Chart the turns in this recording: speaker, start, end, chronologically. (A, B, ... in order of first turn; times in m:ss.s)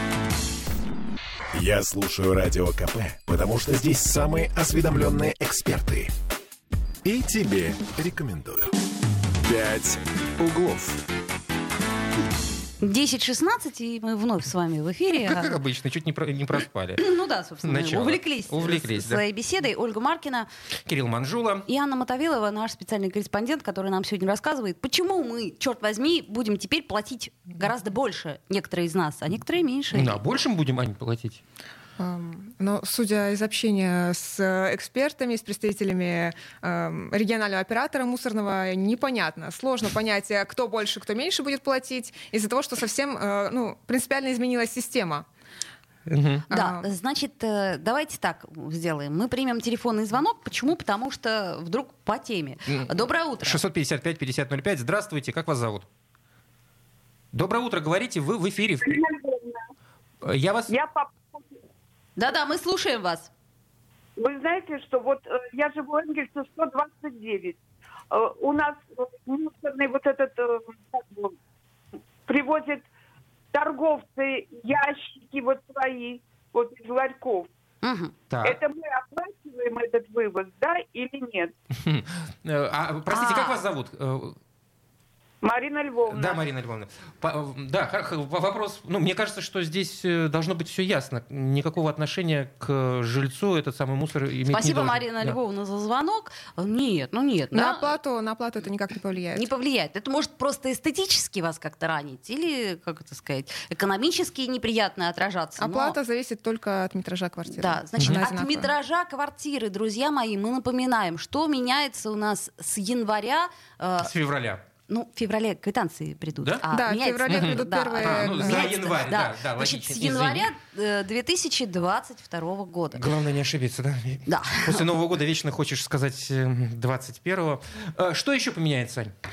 0:01.5-0:06.1 A
0:07.0-0:08.7 A
0:09.4-0:11.0 A
0:12.8-0:15.6 B
0:15.1-0:17.0 C
0:17.0-0:20.5 B
0:17.6-0:19.2 C
0:20.8-0:21.7 C
0:21.7-0:30.2 B
0:29.9-0:31.4 C
0:32.0-0:45.3 D
0:46.1-0:46.4 C
0:46.5-0:46.9 D
0:46.5-0:53.6 B
0:52.7-0:55.9 C
0:57.3-0:59.0 C
0:58.8-0:59.6 E
1:00.2-1:00.8 C
1:00.7-1:01.6 E
1:02.2-1:03.3 B
1:04.2-1:07.6 E
1:08.1-1:11.4 E
1:12.3-1:12.9 E
1:13.5-1:17.5 E
1:17.8-1:18.1 B
1:18.3-1:18.6 C
1:18.4-1:21.5 E
1:21.7-1:24.4 C
1:23.1-1:23.6 B
1:25.4-1:26.4 E
1:26.1-1:35.4 C
1:34.5-1:38.0 B
1:37.5-1:39.5 D
1:39.4-1:46.0 B
1:45.6-1:48.7 D
1:47.6-1:54.1 B
1:54.0-1:54.6 C
1:54.9-2:03.0 B
1:56.7-1:58.8 D
1:57.3-2:00.5 C
2:02.9-2:09.1 C
2:04.3-2:04.9 B